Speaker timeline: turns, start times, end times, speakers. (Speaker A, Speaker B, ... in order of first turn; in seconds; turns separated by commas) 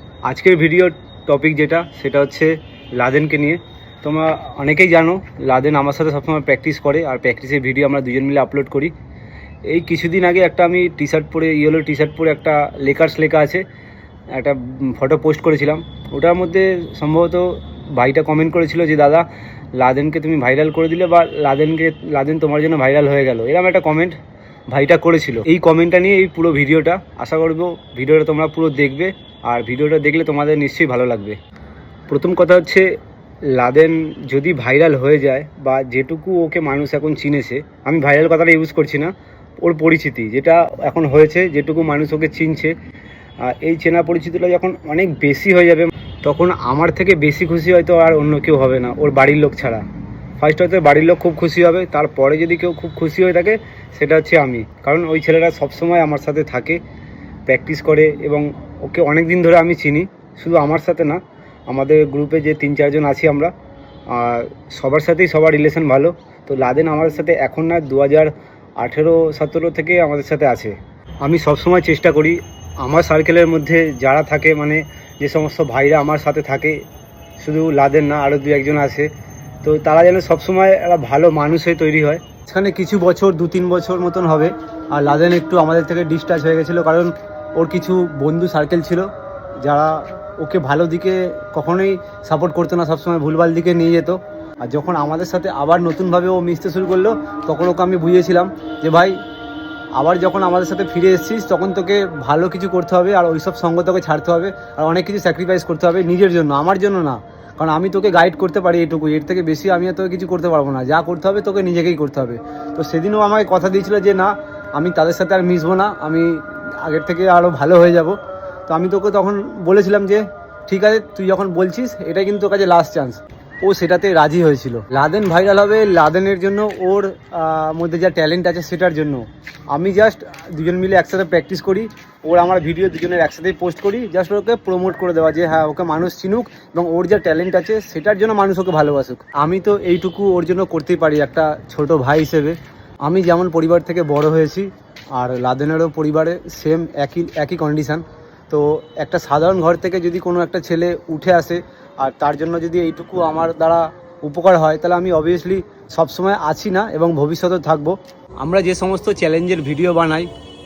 Speaker A: 0.2-8.9, Speaker A: 9.7-13.6, Speaker A: 14.3-24.2, Speaker A: 24.7-31.4, Speaker A: 32.1-32.9, Speaker A: 33.5-42.7, Speaker A: 43.4-49.8, Speaker A: 50.4-56.8, Speaker A: 57.5-63.5, Speaker A: 64.1-76.8, Speaker A: 77.4-79.1, Speaker A: 79.6-89.1, Speaker A: 89.6-99.2, Speaker A: 99.9-160.3